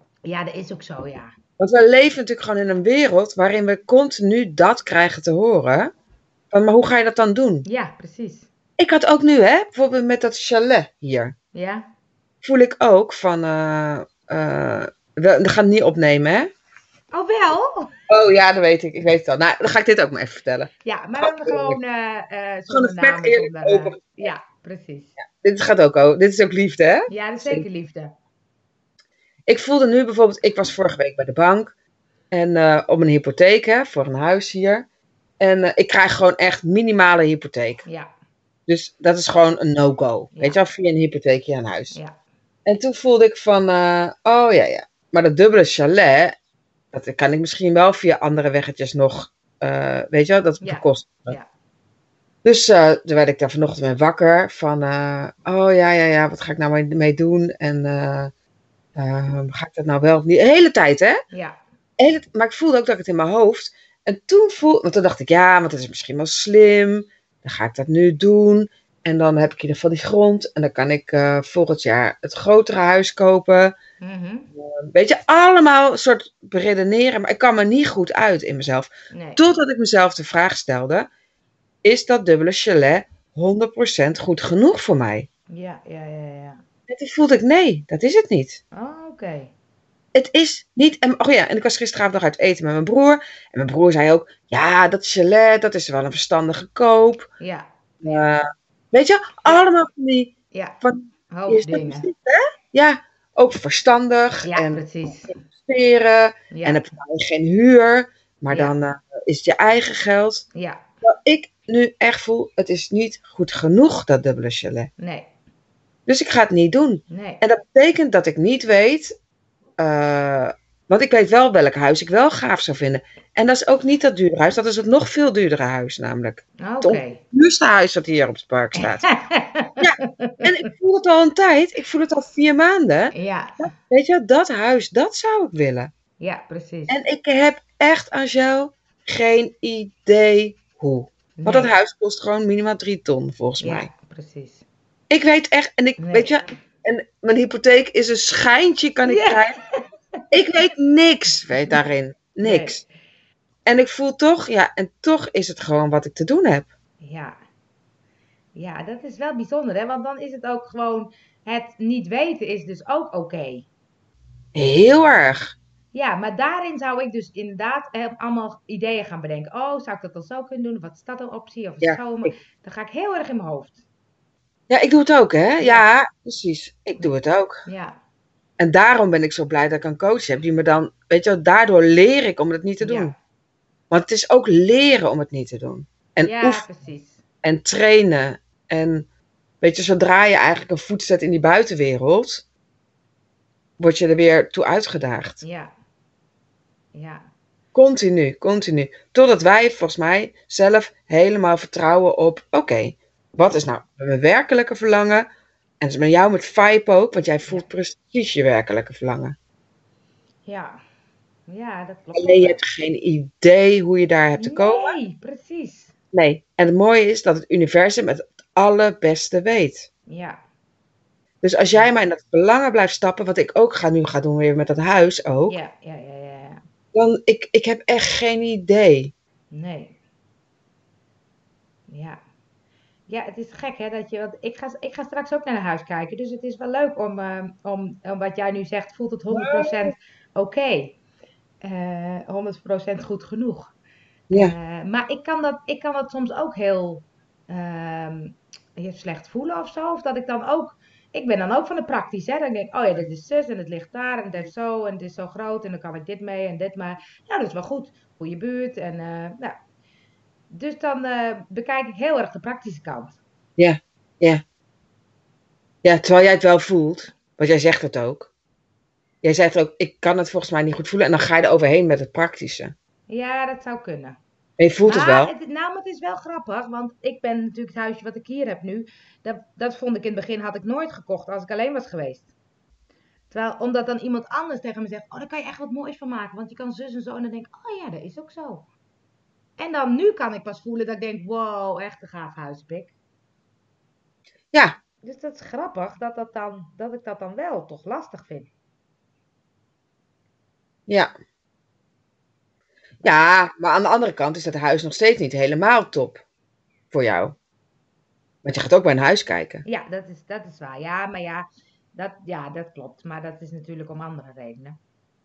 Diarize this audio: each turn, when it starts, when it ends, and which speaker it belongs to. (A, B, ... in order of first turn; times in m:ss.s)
0:00.2-0:01.3 A
0:01.6-0:05.9 B
0:06.5-0:07.6 B
0:07.6-0:08.5 A
0:08.8-0:11.3 B
0:11.5-0:11.9 A
0:12.4-0:16.5 B
0:17.1-0:17.9 A
0:18.1-0:21.8 B
0:20.8-0:25.2 A
0:22.7-0:24.3 B
0:25.2-0:27.6 B
0:27.1-0:28.1 A
0:29.5-0:31.7 B
0:32.3-0:34.9 B
0:35.4-0:37.8 B
0:38.7-0:42.0 B
0:40.3-0:40.6 A
0:42.6-0:46.3 B
0:46.9-0:51.4 B
0:50.6-0:51.5 A
0:52.4-0:58.3 B
0:59.0-1:01.2 B
1:01.3-1:01.6 A
1:02.0-1:13.7 B
1:14.0-1:14.5 A
1:14.6-1:21.1 B
1:19.1-1:19.4 A
1:21.8-1:25.3 B
1:25.5-1:26.6 A
1:26.9-1:28.6 B
1:28.7-1:29.5 A
1:30.1-1:37.3 B
1:37.4-1:38.3 A
1:38.0-1:50.4 B
1:41.3-1:42.1 A
1:44.4-1:45.4 A
1:46.5-1:46.8 A
1:50.5-1:50.8 A
1:51.0-1:54.9 B
1:55.0-1:55.3 A
1:56.1-1:59.1 B
1:57.1-1:57.4 A
1:59.8-2:09.1 B
2:06.6-2:07.2 A
2:08.8-2:10.6 A
2:09.8-2:15.9 B
2:13.1-2:13.7 A
2:16.2-2:17.0 A
2:16.9-2:23.9 B
2:21.4-2:21.7 A
2:23.6-2:24.6 A
2:25.1-2:29.6 B
2:26.0-2:26.4 A
2:29.0-2:30.2 A
2:30.3-2:32.8 B
2:32.4-2:32.9 A
2:33.6-2:36.7 B
2:37.0-2:37.4 A
2:38.5-2:43.7 A
2:44.5-2:45.5 B
2:45.9-2:53.8 A
2:51.8-2:52.3 B
2:54.7-2:57.6 B
2:55.6-2:55.9 A
2:57.6-2:58.0 A
2:58.6-3:03.1 B
3:02.8-3:03.1 A
3:03.9-3:06.6 B
3:06.2-3:07.2 A
3:07.4-3:09.0 B
3:09.6-3:12.4 B
3:13.8-3:15.4 B
3:15.4-3:15.7 A
3:16.9-3:17.3 A
3:17.7-3:25.3 B
3:25.8-3:29.4 B
3:30.4-3:30.8 A
3:31.5-3:32.6 A
3:32.1-3:34.9 B
3:34.4-3:35.9 A
3:36.1-3:39.9 B
3:40.1-3:40.4 A
3:41.4-3:45.6 B
3:45.5-3:46.6 A
3:46.9-3:49.1 B
3:49.5-3:50.0 A
3:51.9-3:52.2 A
3:53.1-4:01.0 A
3:59.3-3:59.9 B
4:01.6-4:03.7 A
4:04.3-4:19.6 A
4:20.5-4:23.2 A
4:23.6-4:24.4 B
4:25.8-4:28.3 B
4:29.2-4:32.7 B
4:33.1-4:34.2 A
4:34.6-4:35.3 B
4:34.8-4:42.3 A
4:43.3-4:48.6 A
4:49.6-4:52.9 A
4:55.0-4:58.5 A
5:03.0-5:06.2 B
5:06.9-5:07.4 B
5:08.4-5:09.6 B
5:09.6-5:14.8 A